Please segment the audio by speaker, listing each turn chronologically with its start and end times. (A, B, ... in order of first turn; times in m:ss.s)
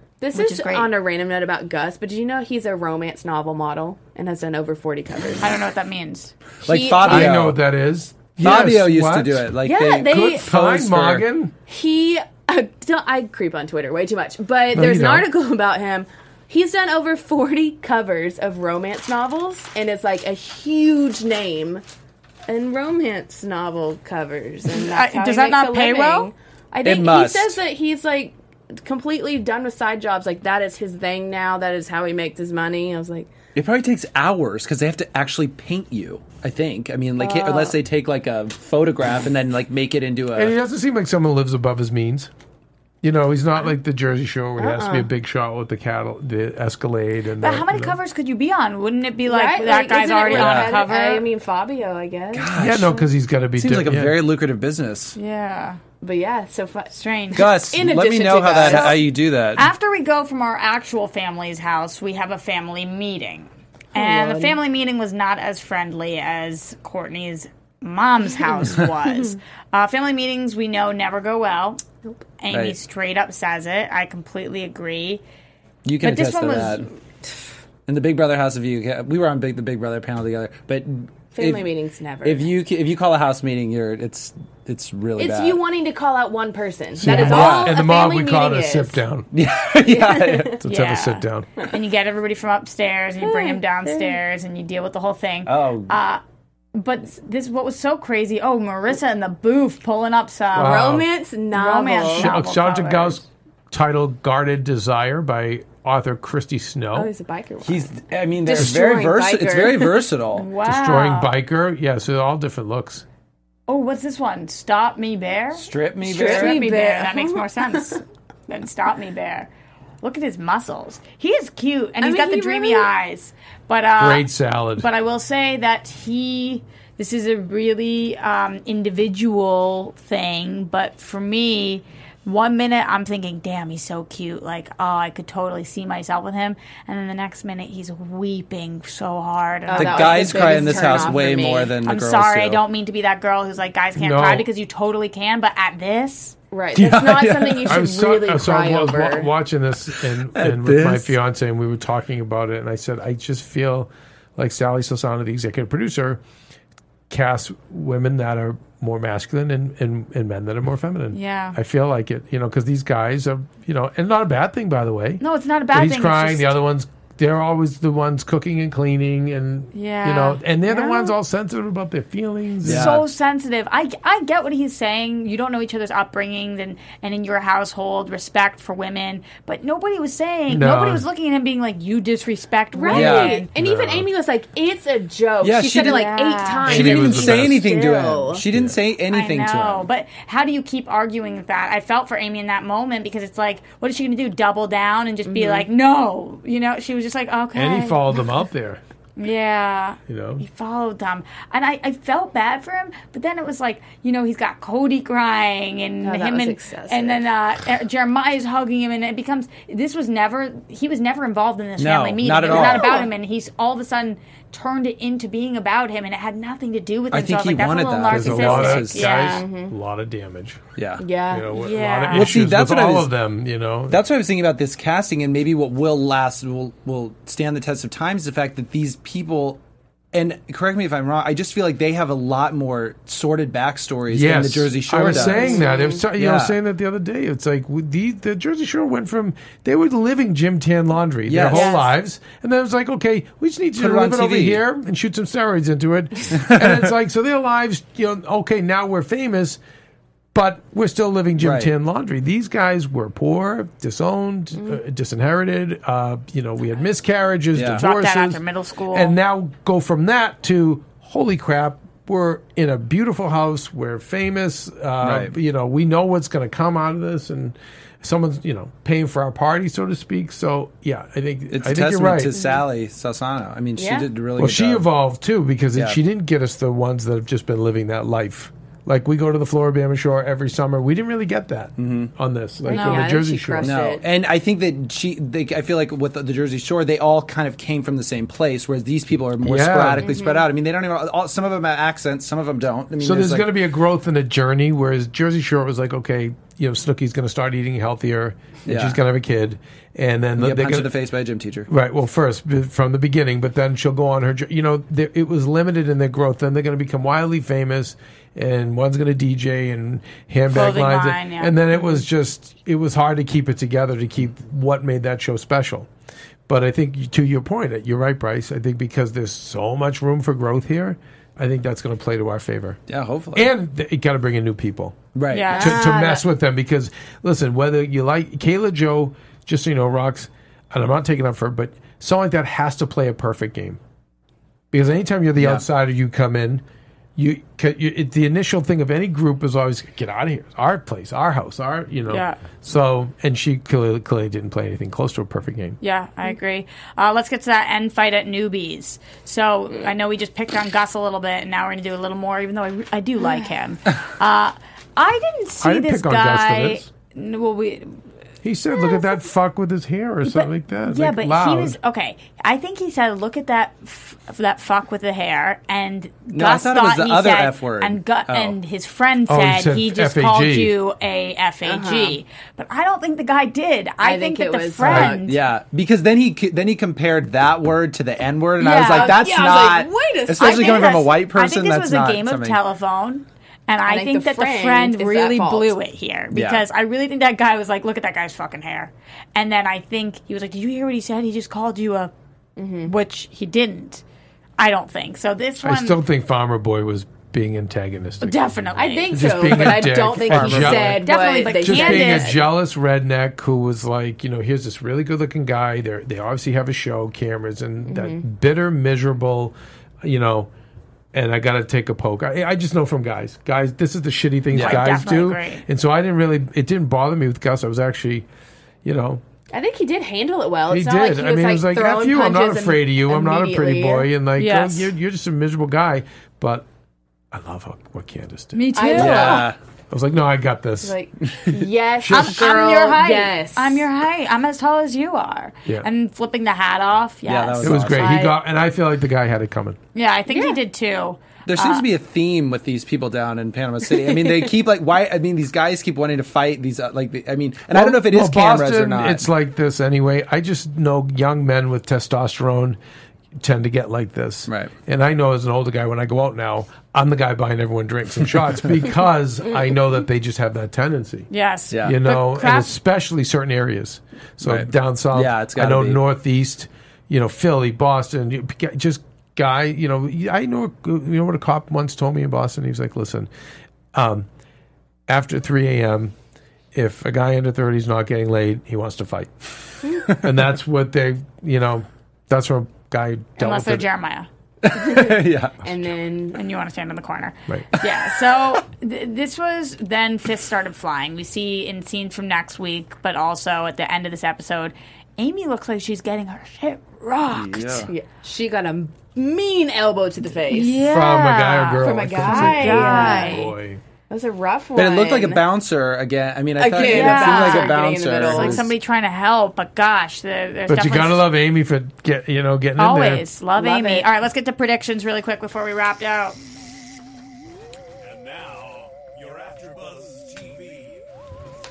0:00.2-0:05.6 A
0:00.3-0:00.9 B
0:05.4-0:06.3 B
0:06.6-0:07.6 C
0:06.7-0:07.4 A
0:07.0-0:11.5 D
0:08.4-0:11.2 C
0:09.6-0:10.5 A
0:11.7-0:21.8 A
0:14.7-0:15.3 D
0:22.5-0:33.3 A
0:24.7-0:26.3 B
0:26.8-0:27.6 C
0:33.6-0:40.5 C
0:37.2-0:37.8 A
0:40.4-0:42.3 D
0:43.0-0:48.0 D
0:44.6-0:45.1 A
0:47.4-0:51.2 B
0:49.3-0:52.9 A
0:50.3-0:50.8 C
0:52.3-0:53.0 C
0:52.6-0:54.2 D
0:53.6-0:55.2 C
0:55.2-0:55.8 B
0:56.0-0:59.0 A
0:56.9-0:57.5 B
0:57.4-0:59.7 C
0:58.6-1:11.8 B
1:03.9-1:04.6 A
1:08.6-1:09.3 A
1:12.4-1:15.2 B
1:12.5-1:12.8 C
1:15.8-1:16.9 C
1:16.0-1:16.9 B
1:17.9-1:21.7 C
1:21.4-1:22.5 A
1:22.2-1:25.6 C
1:25.2-1:29.0 A
1:27.0-1:29.3 D
1:27.0-1:27.8 C
1:29.3-1:30.6 C
1:29.8-1:30.6 A
1:30.6-1:31.5 D
1:30.7-1:36.2 B
1:33.2-1:34.2 A
1:35.5-1:35.9 C
1:36.7-1:41.0 B
1:40.5-1:42.3 A
1:40.6-1:41.1 D
1:41.5-1:43.2 B
1:42.1-1:47.1 D
1:46.9-1:50.1 A
1:47.6-1:50.5 C
1:50.4-1:51.3 B
1:50.6-1:53.0 D
1:53.7-1:59.5 B
1:55.6-1:56.6 C
1:56.0-1:58.0 A
2:00.0-2:21.2 B
2:02.0-2:02.9 A
2:04.0-2:04.9 D
2:19.7-2:21.7 A
2:19.7-2:22.6 C
2:21.8-2:26.4 B
2:24.0-2:24.5 D
2:26.5-2:29.3 A
2:26.8-2:27.9 C
2:27.6-2:36.2 D
2:30.2-2:31.2 C
2:37.1-2:53.0 D
2:41.1-2:41.6 B
2:45.2-2:46.6 B
2:49.7-2:50.4 B
2:50.7-2:51.1 A
2:52.6-2:53.0 C
2:52.6-3:03.5 B
3:00.5-3:01.1 D
3:02.7-3:08.4 A
3:02.9-3:03.4 C
3:03.5-3:04.1 D
3:05.4-3:06.1 C
3:05.7-3:06.8 B
3:06.6-3:09.9 C
3:06.7-3:07.7 D
3:08.5-3:08.8 D
3:09.1-3:18.0 B
3:15.3-3:15.7 A
3:17.6-3:18.8 D
3:19.2-3:39.4 B
3:20.1-3:20.4 D
3:26.0-3:27.2 A
3:31.8-3:33.0 C
3:32.4-3:33.1 A
3:37.1-3:39.1 C
3:38.1-3:40.6 D
3:39.1-3:39.8 A
3:40.8-3:41.0 C
3:41.0-3:41.6 A
3:41.3-3:44.0 D
3:41.5-3:42.3 B
3:42.1-3:43.1 C
3:43.9-3:49.6 C
3:50.1-3:56.6 C
3:54.1-4:09.6 D
3:55.0-3:56.0 A
4:01.3-4:01.7 C
4:01.5-4:01.9 A
4:03.8-4:04.6 C
4:06.3-4:06.9 C
4:10.3-4:32.4 D
4:11.4-4:11.7 C
4:17.6-4:17.8 C
4:17.8-4:19.2 B
4:25.0-4:25.3 C
4:31.5-4:34.9 C
4:32.4-4:32.6 A
4:33.8-4:34.1 A
4:34.4-4:43.8 D
4:41.8-4:42.1 C
4:42.6-4:44.0 A
4:42.7-4:43.1 B
4:43.6-4:53.5 C
4:49.4-4:50.1 D
4:50.0-4:50.5 A
4:53.0-5:00.9 D
4:58.7-4:59.0 C
5:00.4-5:01.7 C
5:01.7-5:15.9 D
5:10.5-5:11.6 B
5:16.5-5:22.8 D
5:22.9-5:23.5 C
5:23.3-5:33.8 D
5:25.2-5:25.6 C
5:25.3-5:25.8 B
5:25.5-5:26.2 A
5:34.7-5:36.6 D
5:35.4-5:35.6 C
5:37.2-5:45.8 D
5:42.1-5:42.4 B
5:45.8-5:58.0 B
5:55.6-5:56.9 D
5:58.4-6:01.8 D
6:00.2-6:15.4 B
6:06.3-6:08.6 C
6:09.3-6:10.7 D
6:11.6-6:12.2 A
6:14.0-6:15.2 A
6:14.8-6:15.2 D
6:14.9-6:22.6 C
6:18.6-6:19.3 B
6:18.6-6:21.1 A
6:20.4-6:32.1 B
6:23.9-6:25.8 A
6:26.3-6:26.6 C
6:32.6-6:32.9 A
6:32.9-6:34.0 B
6:34.6-6:36.0 B
6:35.6-6:38.6 D
6:38.2-6:42.3 B
6:38.8-6:42.4 A
6:39.1-6:41.1 D
6:40.3-6:40.7 C
6:41.6-6:50.5 D
6:47.9-6:48.2 A
6:51.1-6:58.3 D
6:54.5-6:54.8 C
6:54.6-6:55.6 B
6:58.8-6:59.2 D
6:59.5-7:04.1 A
7:00.7-7:06.7 D
7:04.4-7:04.9 B
7:07.3-7:09.1 D
7:08.6-7:09.5 B
7:08.8-7:09.5 A
7:09.0-7:09.6 C
7:09.9-7:11.0 D
7:10.8-7:13.9 A
7:12.0-7:12.7 D
7:12.1-7:18.3 B
7:17.2-7:18.2 C
7:17.6-7:19.8 D
7:18.0-7:18.3 A
7:20.0-7:21.9 B
7:20.3-7:20.6 A
7:21.5-7:29.2 C
7:27.7-7:32.8 D
7:33.4-7:41.3 D
7:41.3-7:42.7 B
7:41.7-7:42.0 C
7:41.8-7:53.3 D
7:44.4-7:46.0 C
7:53.9-7:54.3 D
7:55.1-7:56.1 D
7:56.7-8:03.9 D
8:03.4-8:04.3 B
8:04.6-8:05.6 C
8:04.7-8:06.4 A
8:06.3-8:17.9 B
8:17.3-8:17.9 C
8:17.9-8:20.8 A
8:20.5-8:23.5 B
8:20.9-8:23.8 D
8:21.8-8:23.5 A
8:24.1-8:25.4 A
8:24.8-8:28.7 C
8:26.6-8:28.6 A
8:26.8-8:31.3 B
8:30.7-8:33.3 D
8:32.8-8:36.4 B
8:33.6-8:34.1 A
8:38.2-8:40.7 E